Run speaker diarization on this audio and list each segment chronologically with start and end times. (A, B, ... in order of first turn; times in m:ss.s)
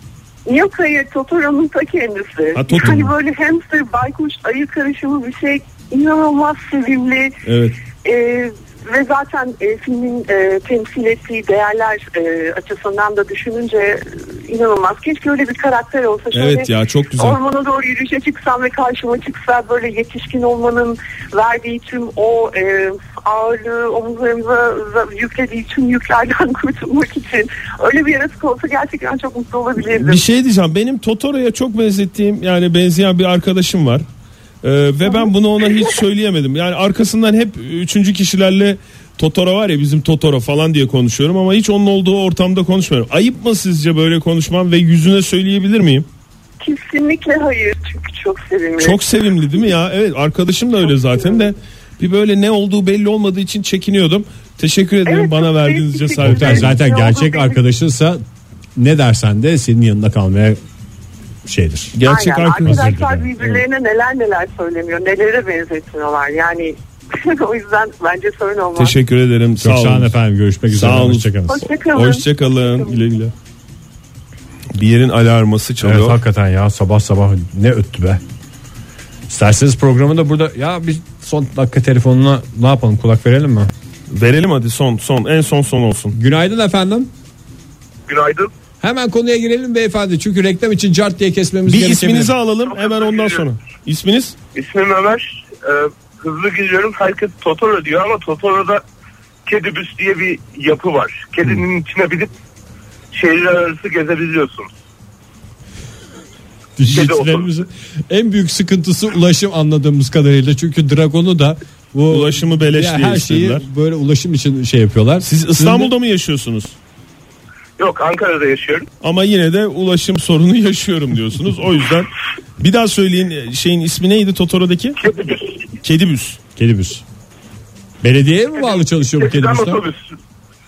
0:00.4-0:07.4 A
0:02.5-0:03.1 B
0:07.4-0:07.8 B
0:08.0-0:30.2 A
0:16.3-0:17.4 B
0:29.9-0:34.0 B
0:34.6-0:46.1 B
0:35.0-0:36.0 A
0:46.6-0:49.0 A
0:48.8-0:56.8 B
0:55.0-0:57.6 A
0:56.2-0:58.2 C
0:58.7-1:00.6 C
1:01.4-1:02.0 C
1:01.9-1:03.6 B
1:02.0-1:08.9 A
1:02.6-1:03.3 C
1:08.8-1:10.2 B
1:09.6-1:11.6 C
1:10.7-1:13.3 B
1:11.5-1:12.9 A
1:14.7-1:16.2 B
1:15.8-1:18.2 C
1:19.3-1:23.7 C
1:24.1-1:26.1 B
1:26.1-1:27.1 C
1:28.1-1:28.5 D
1:28.8-1:32.4 C
1:31.7-1:34.4 B
1:32.8-1:33.4 D
1:34.5-1:38.8 D
1:39.4-1:42.3 D
1:43.1-1:44.7 D
1:46.8-1:55.9 C
1:46.8-1:47.4 D
1:52.1-1:53.6 B
1:55.2-1:56.8 B
1:57.8-1:58.9 D
1:59.0-2:05.0 B
2:05.0-2:05.6 D
2:05.8-2:06.4 B
2:06.6-2:07.0 C
2:08.0-2:09.8 C
2:08.7-2:10.1 D